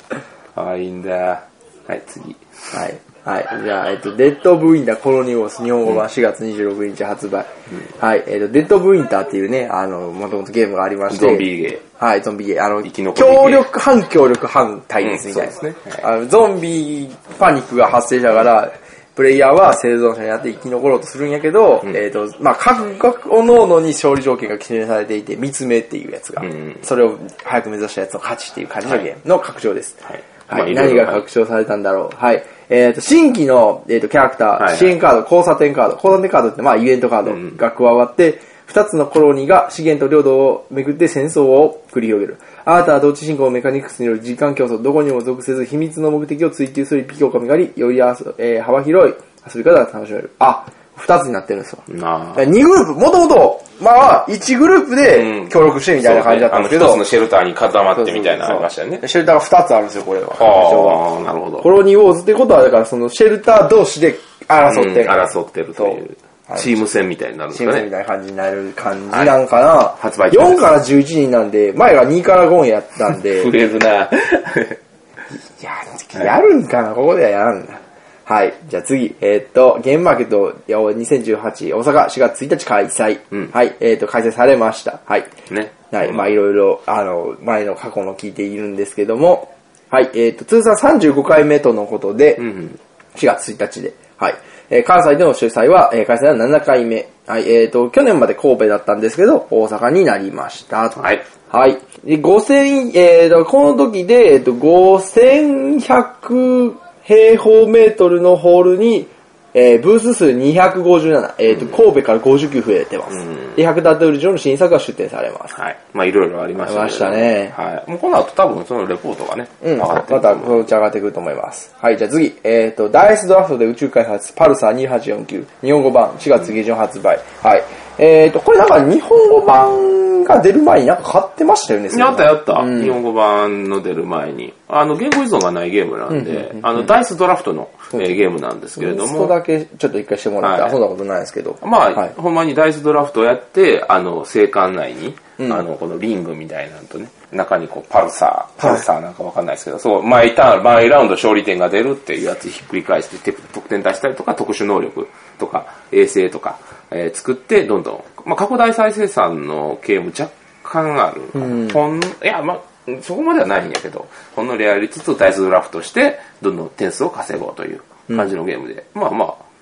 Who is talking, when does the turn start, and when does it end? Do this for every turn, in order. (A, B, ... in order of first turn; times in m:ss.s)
0:00.5-0:02.7 A
0:02.7-0:51.8 B
0:11.1-0:11.8 A
0:12.8-0:13.7 A
0:15.0-0:16.0 A
0:26.4-0:26.8 A
0:30.1-0:31.2 A
0:34.6-0:34.9 A
0:51.9-0:52.4 A
0:52.4-0:57.0 B
0:55.0-0:59.0 A
0:57.9-1:01.0 B
1:00.4-1:01.7 A
1:01.6-1:06.7 B
1:04.6-1:07.9 A
1:07.5-1:13.5 B
1:10.0-1:10.7 A
1:13.1-1:14.8 A
1:15.5-1:25.3 B
1:25.5-1:26.3 A
1:25.9-1:32.5 B
1:32.4-1:32.8 A
1:33.1-1:55.5 B
1:41.0-1:41.2 A
1:53.1-1:53.6 A
1:55.5-2:00.7 A
1:56.6-1:57.5 B
1:59.6-2:13.0 B
2:11.9-2:19.3 A
2:16.1-2:16.9 B
2:18.8-2:22.1 B
2:20.4-2:20.8 A
2:21.6-2:49.4 A
2:28.6-2:28.8 B
2:41.3-2:41.8 B